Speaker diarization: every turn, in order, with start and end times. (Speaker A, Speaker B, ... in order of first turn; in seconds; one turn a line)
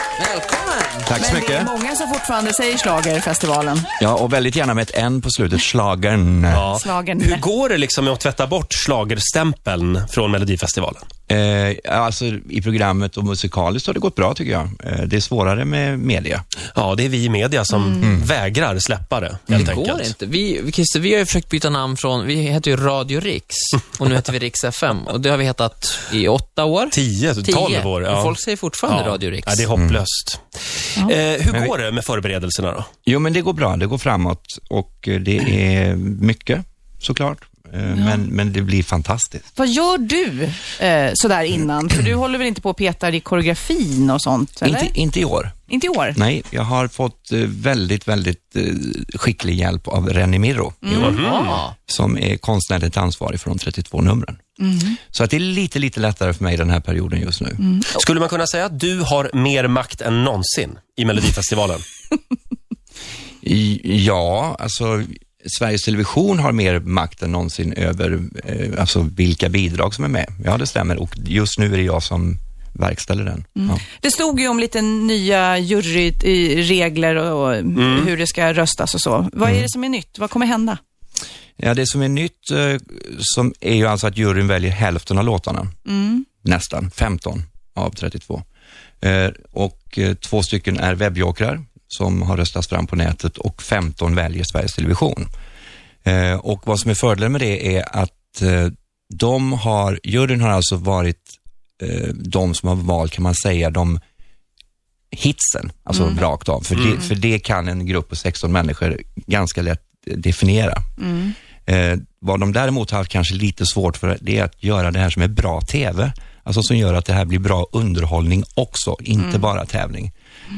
Speaker A: 0.2-1.0
Speaker B: 1.1-1.7
Speaker C: 1.1-3.9
Speaker B: 4.0-6.7
Speaker D: 6.5-11.1
Speaker C: 6.7-7.4
Speaker B: 11.3-16.4
Speaker D: 16.7-20.1
Speaker B: 18.0-18.3
Speaker A: 19.6-29.7
Speaker D: 26.9-32.9
Speaker B: 29.8-30.0
Speaker B: 33.0-39.4
Speaker C: 37.9-38.2
Speaker C: 39.5-44.9
Speaker B: 44.6-45.5
Speaker C: 45.7-46.2
Speaker B: 46.1-54.4
Speaker C: 50.8-51.5
Speaker D: 51.0-51.6
Speaker C: 54.6-55.0
Speaker B: 55.1-57.6
Speaker C: 57.6-58.0
Speaker D: 57.9-61.8
Speaker B: 63.4-73.8
Speaker C: 73.6-80.8
Speaker D: 77.7-78.1
Speaker B: 81.6-85.7
Speaker C: 85.8-86.2
Speaker B: 86.4-88.4
Speaker B: 89.0-95.3
Speaker B: 96.0-104.0
Speaker B: 105.1-110.8
Speaker C: 105.9-106.2
Speaker C: 111.0-111.3
Speaker B: 111.7-120.1
Speaker C: 119.2-119.5